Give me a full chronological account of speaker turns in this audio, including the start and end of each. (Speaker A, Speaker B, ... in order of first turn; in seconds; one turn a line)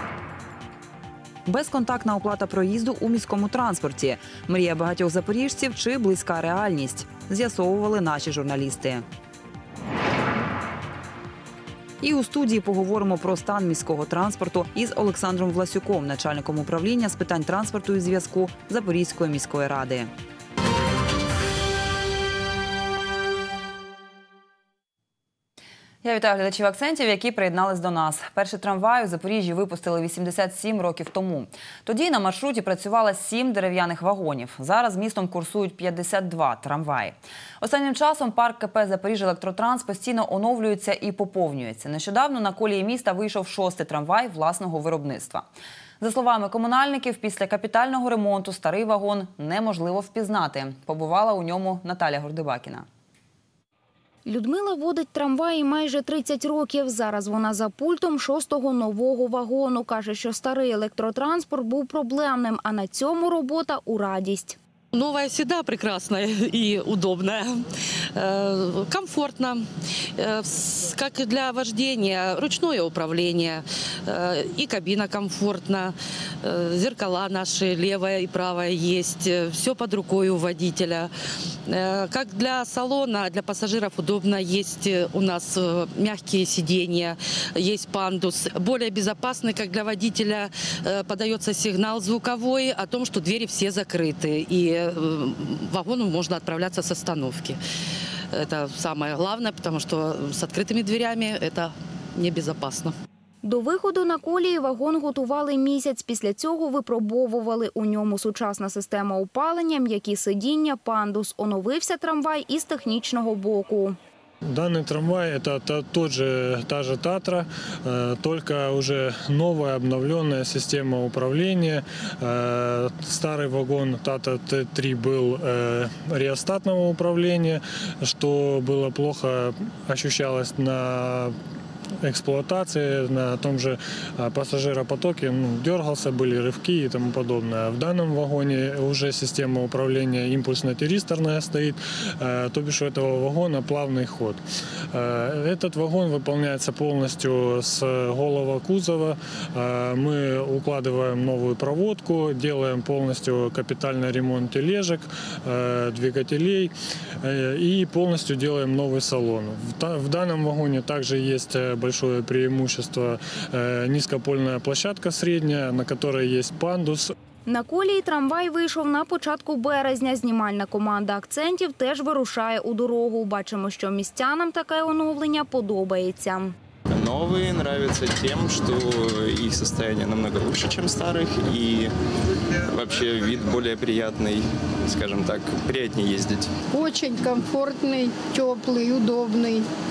Speaker A: 1.5-9.1
Speaker A: 12.0-20.1
Speaker A: 26.0-45.5
Speaker A: 46.0-52.9
Speaker B: 54.3-64.6
Speaker C: 64.9-69.7
Speaker C: 70.2-81.1
Speaker C: 81.7-97.6
Speaker C: 98.3-103.0
Speaker B: 103.4-114.0
Speaker D: 114.5-131.4
Speaker D: 132.0-167.1
Speaker B: 167.5-176.5
Speaker E: 176.9-181.9
Speaker E: 182.7-186.5
Speaker F: 186.7-189.7